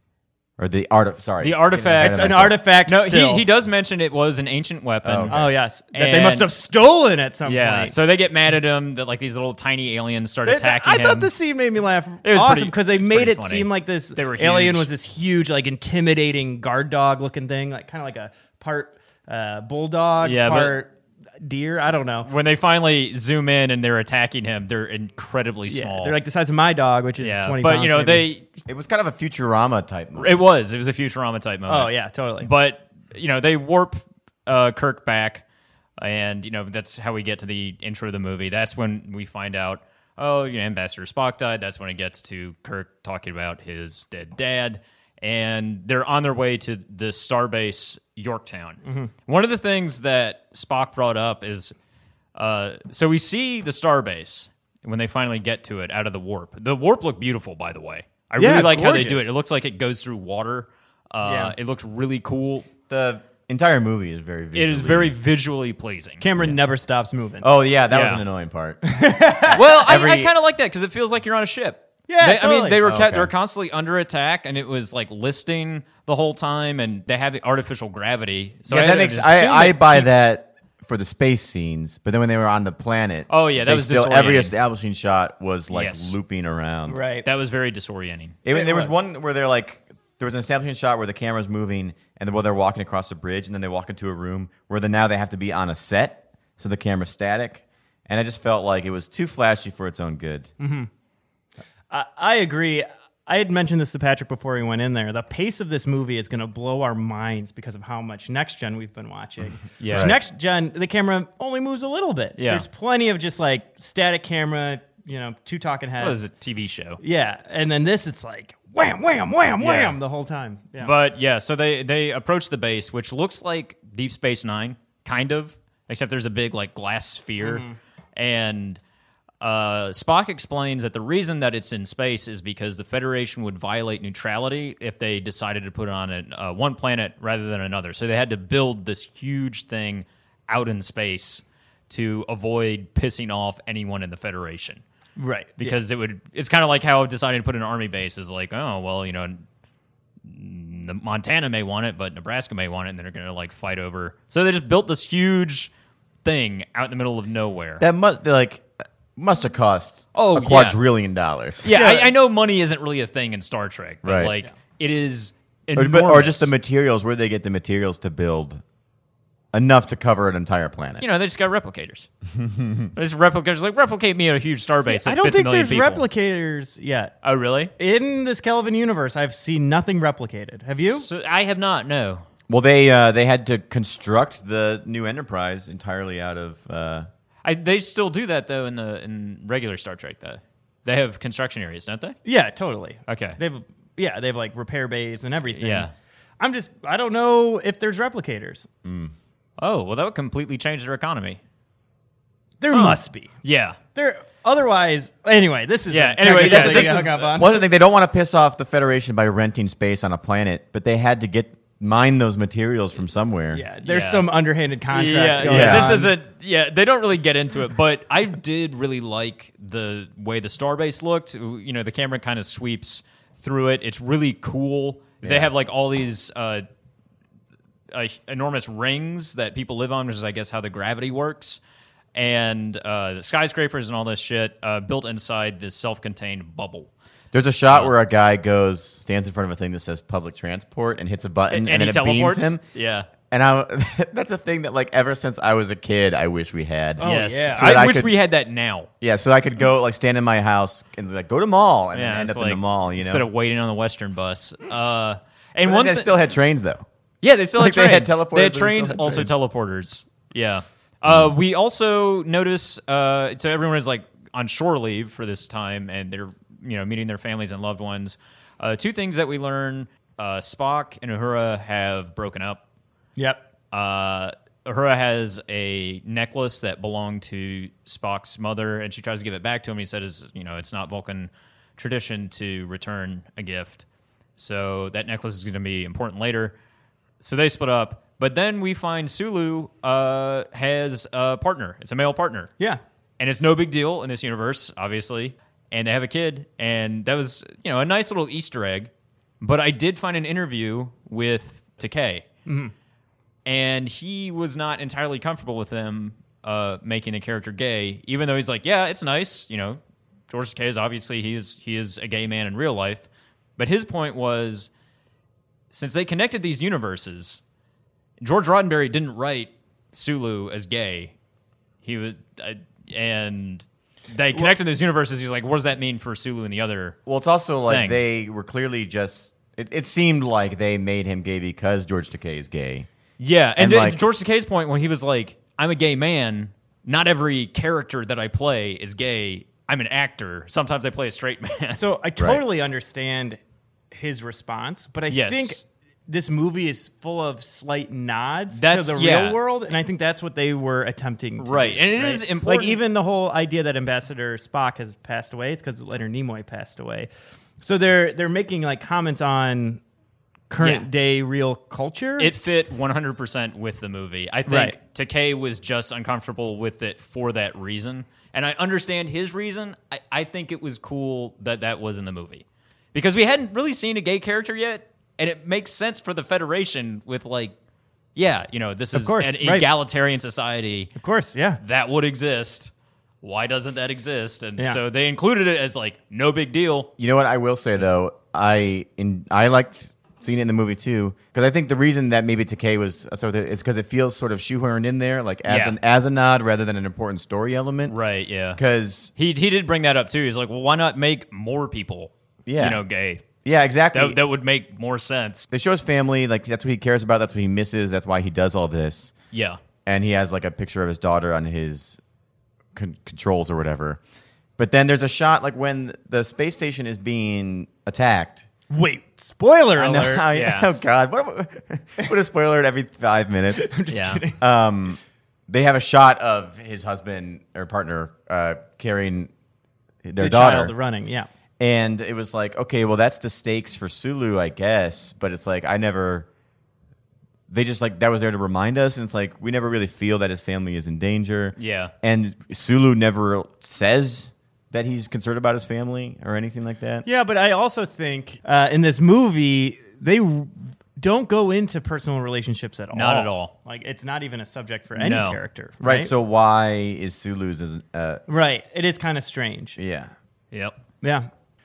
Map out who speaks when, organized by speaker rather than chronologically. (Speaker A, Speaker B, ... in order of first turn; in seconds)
Speaker A: 0.6-2.6, 5.0-5.4, 28.7-30.4, 62.9-65.1, 67.4-68.8, 69.4-70.3, 72.8-73.3, 78.7-87.0, 88.5-100.5, 109.9-110.2, 157.8-161.7, 164.0-164.3, 165.7-168.6, 169.5-171.0, 172.4-172.9, 182.5-187.1, 198.8-199.1, 206.2-213.6, 215.4-216.0, 225.2-225.5, 237.3-242.6, 243.3-248.1, 249.0-253.3, 255.6-256.9, 257.6-259.3, 327.1-332.9, 333.6-334.0, 387.0-398.0, 398.6-399.1, 402.5-402.8, 403.4-404.2, 405.5-409.1, 409.9-412.0, 412.8-414.0, 414.6-418.5, 419.8-423.7, 424.4-429.3, 430.0-430.8, 431.6-436.3, 437.5-447.1, 455.8-458.2, 459.8-460.1
Speaker B: 1.4-6.5, 7.5-11.3, 12.2-14.9, 20.2-20.8, 22.2-26.2, 27.2-28.6, 30.2-35.4, 36.0-51.7, 52.4-62.7, 64.5-66.3, 67.9-68.2, 69.5-80.3, 83.3-84.5, 85.7-86.2, 87.2-88.4, 109.8-110.2, 112.4-112.7, 116.0-117.0, 119.6-120.0, 120.8-127.7, 128.2-128.8, 129.4-144.8, 145.6-149.4, 150.2-155.7, 156.2-157.8, 160.2-160.8, 161.6-166.5, 171.0-172.1, 172.9-176.1, 177.2-177.7, 180.8-182.2, 187.4-192.2, 193.1-193.4, 195.5-195.9, 199.6-201.4, 202.7-203.8, 205.9-207.4, 213.8-214.3, 214.9-226.6, 227.9-231.6, 232.2-236.9, 241.5-243.1, 247.0-248.9, 251.9-256.1, 257.2-272.6, 273.7-283.8, 284.4-286.6, 287.2-292.5, 293.2-298.9, 299.4-302.2, 303.5-313.1, 313.6-314.7, 315.7-317.4, 318.2-321.1, 321.8-327.0, 327.7-328.0, 333.2-341.8, 345.1-345.6, 348.5-349.4, 351.4-352.8, 360.6-360.9, 362.2-377.6, 378.2-380.9, 381.6-382.7, 383.2-386.9, 395.5-395.8, 397.9-398.6, 399.2-403.3, 403.9-405.5, 409.3-409.6, 420.3-420.7, 423.9-424.2, 441.6-441.9, 452.9-453.5, 454.9-455.4, 460.5-460.8
Speaker C: 2.0-3.5, 5.3-8.1, 10.4-22.3, 25.7-28.3, 31.7-32.5, 48.8-49.1, 58.4-59.3, 61.2-61.5, 66.2-67.5, 68.8-69.7, 72.1-72.8, 86.9-87.3, 88.5-88.9, 100.6-100.9, 101.9-116.2, 117.0-120.9, 127.4-127.8, 145.2-145.8, 161.7-162.1, 174.8-177.1, 177.8-181.1, 192.2-195.9, 196.4-198.7, 202.6-203.3, 203.9-207.6, 213.5-216.1, 247.0-247.9, 273.2-273.4, 302.5-302.7, 341.8-343.4, 343.9-357.1, 357.6-359.8, 360.5-362.3, 364.5-364.8, 378.9-379.7, 381.0-381.6, 418.7-420.3, 423.5-424.4, 430.2-431.3, 447.1-456.1, 458.3-459.8, 461.0-461.3